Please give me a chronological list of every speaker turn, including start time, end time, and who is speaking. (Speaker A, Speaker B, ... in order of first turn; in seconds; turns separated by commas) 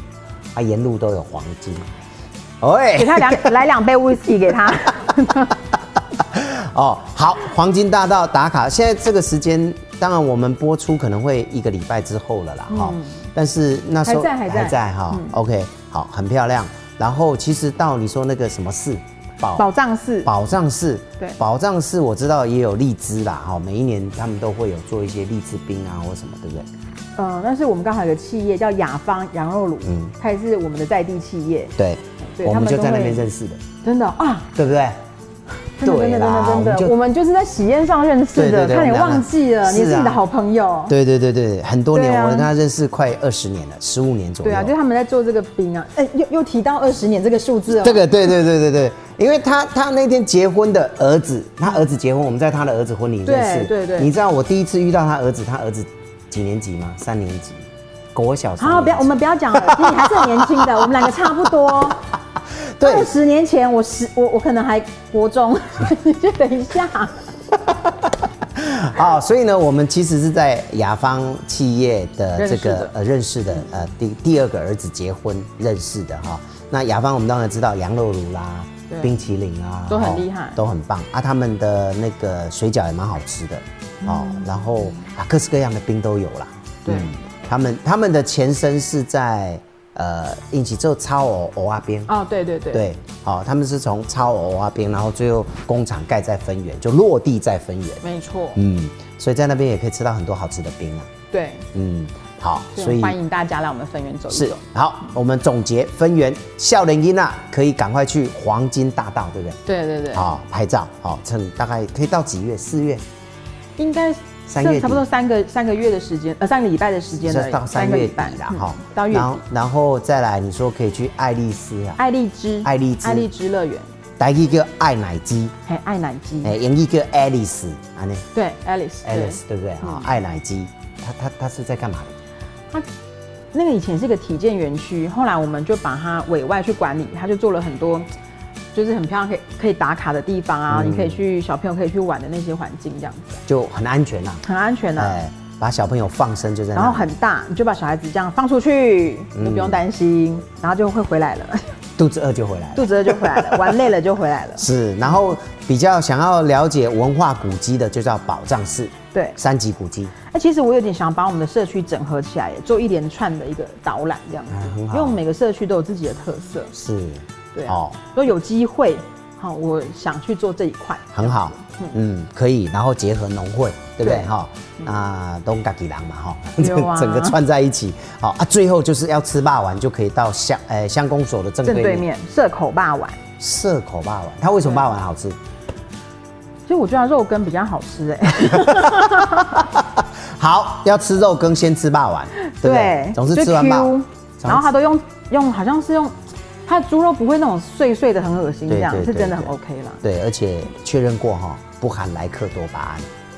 Speaker A: 0.5-1.9, Speaker A: 2.6-3.6, Speaker B: 2.9-5.6, Speaker A: 6.2-19.6, Speaker B: 12.7-13.2, Speaker B: 14.0-15.3, Speaker B: 19.5-20.3, Speaker A: 20.2-26.7, Speaker B: 27.1-31.7, Speaker A: 29.8-30.1, Speaker A: 31.8-33.6, Speaker B: 32.4-33.2, Speaker B: 33.8-34.5, Speaker A: 34.5-35.0, Speaker B: 35.8-40.9, Speaker A: 35.8-36.9, Speaker A: 38.3-40.2, Speaker A: 40.9-44.7, Speaker B: 41.9-42.5, Speaker B: 44.4-48.1, Speaker A: 47.8-61.0, Speaker B: 53.2-54.1, Speaker B: 58.6-62.0, Speaker A: 62.6-63.1, Speaker B: 62.8-67.2, Speaker A: 68.5-92.1, Speaker B: 72.4-72.9, Speaker B: 79.9-80.6, Speaker B: 84.0-84.5, Speaker B: 86.8-87.2, Speaker B: 92.1-92.9, Speaker A: 92.7-98.0, Speaker B: 98.0-98.6, Speaker A: 98.5-101.1, Speaker B: 101.3-101.7, Speaker A: 101.7-103.2, Speaker B: 102.7-104.6, Speaker A: 104.3-109.6, Speaker B: 109.7-110.3, Speaker A: 110.1-113.0, Speaker B: 113.8-119.4, Speaker A: 114.5-115.0, Speaker A: 117.2-122.0, Speaker B: 122.0-123.8, Speaker A: 122.6-123.3, Speaker A: 124.2-125.5, Speaker B: 125.7-126.5, Speaker A: 126.4-128.3, Speaker B: 128.3-130.1, Speaker A: 129.0-132.2, Speaker B: 133.5-138.1, Speaker B: 138.7-143.4, Speaker A: 140.7-141.2, Speaker A: 143.4-144.4, Speaker B: 144.4-145.2, Speaker A: 145.0-147.1, Speaker B: 146.7-151.7, Speaker A: 149.3-149.8, Speaker A: 152.0-153.8, Speaker B: 152.7-154.7, Speaker A: 154.6-160.1, Speaker B: 160.3-166.7, Speaker A: 164.5-165.2, Speaker A: 166.7-167.9, Speaker B: 167.5-171.9, Speaker A: 171.1-182.1, Speaker B: 174.0-174.3, Speaker B: 176.6-177.4, Speaker B: 181.6-183.2, Speaker A: 183.4-185.4, Speaker B: 186.7-189.6, Speaker A: 188.5-194.7, Speaker B: 192.4-196.1, Speaker B: 196.7-200.0, Speaker A: 198.7-203.1